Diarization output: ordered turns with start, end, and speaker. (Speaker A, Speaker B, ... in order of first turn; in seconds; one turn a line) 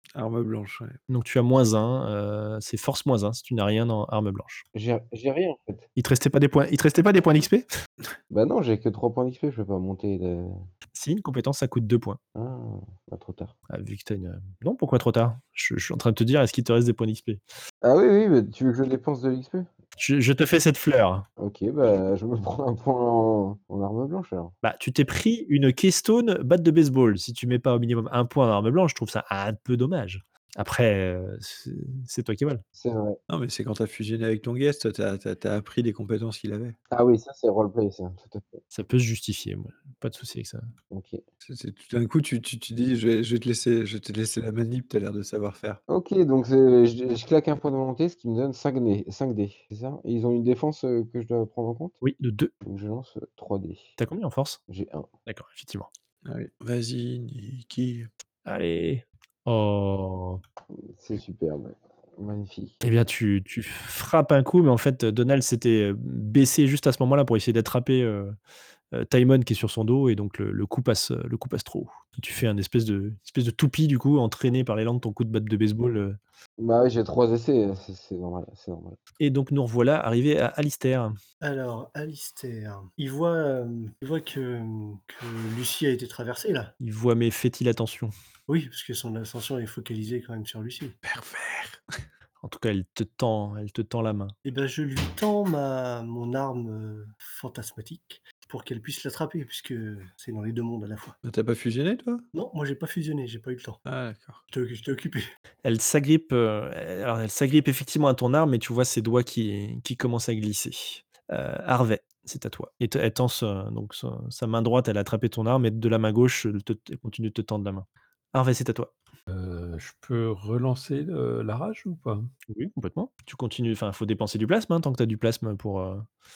Speaker A: 0.1-1.0
Speaker B: 1.1-4.7
Speaker C: 4.8-5.9
Speaker B: 6.0-7.7
Speaker C: 8.3-10.7
Speaker B: 10.9-12.2
Speaker C: 12.4-13.5
Speaker B: 13.7-17.4
Speaker C: 17.8-19.7
Speaker B: 20.0-21.3
Speaker C: 21.4-24.6
Speaker B: 24.6-32.6
Speaker C: 32.8-33.2
Speaker A: 33.3-36.8
Speaker C: 36.9-38.6
Speaker B: 38.7-40.7
Speaker C: 40.9-41.2
Speaker A: 41.4-45.8
Speaker C: 45.9-52.0
Speaker B: 52.0-52.5
Speaker C: 52.6-54.0
Speaker B: 54.0-54.6
Speaker C: 54.7-55.1
Speaker B: 55.3-55.9
Speaker A: 56.2-58.1
Speaker B: 58.5-60.4
Speaker C: 60.7-62.8
Speaker B: 62.8-68.4
Speaker B: 68.9-76.2
Speaker C: 76.6-79.0
Speaker B: 79.2-81.2
Speaker D: 81.4-86.7
Speaker B: 86.8-88.1
Speaker D: 88.5-91.0
Speaker A: 91.0-91.9
Speaker B: 92.4-94.3
Speaker D: 94.5-101.2
Speaker A: 101.2-102.2
Speaker D: 102.3-103.8
Speaker A: 103.9-104.4
Speaker D: 104.5-105.2
Speaker B: 105.6-118.9
Speaker E: 119.3-122.3
Speaker B: 122.5-126.1